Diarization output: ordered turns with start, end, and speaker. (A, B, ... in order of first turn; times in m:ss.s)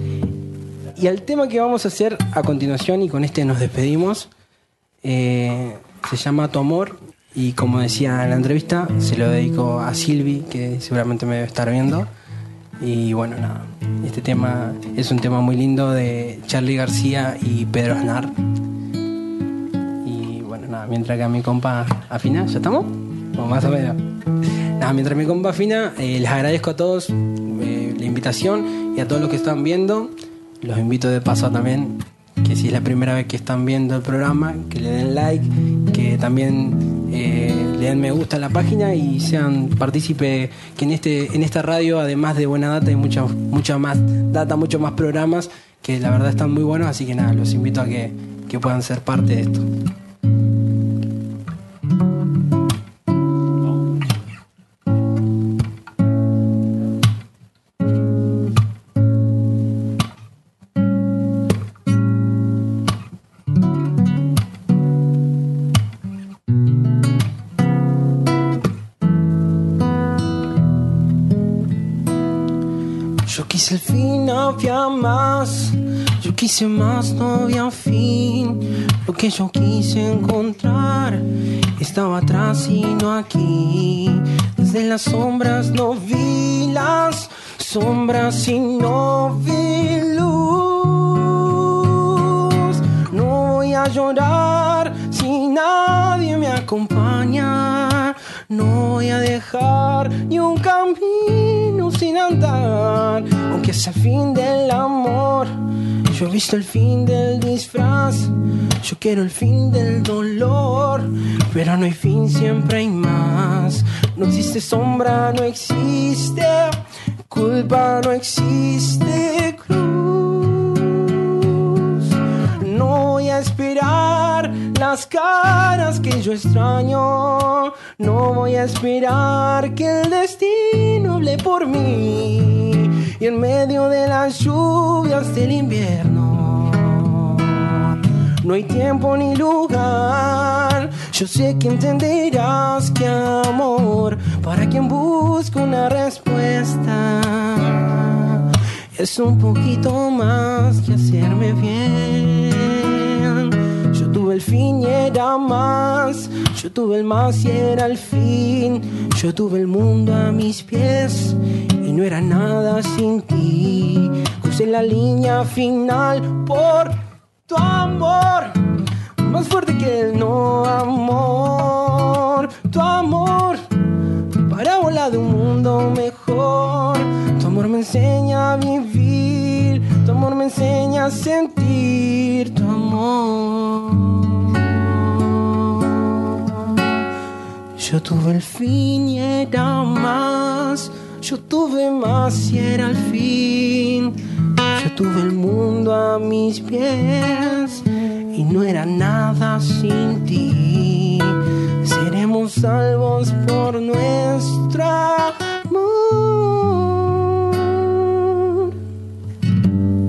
0:01.0-0:04.3 A
0:05.0-0:12.1 A
0:12.8-0:18.3 A
0:20.0-0:24.0 A
0:24.8-0:49.7 A
1:13.2-1:21.2 A
1:21.8-1:45.5 A
1:46.1-2:48.6 A
2:49.2-3:07.0 A
3:07.8-3:28.7 A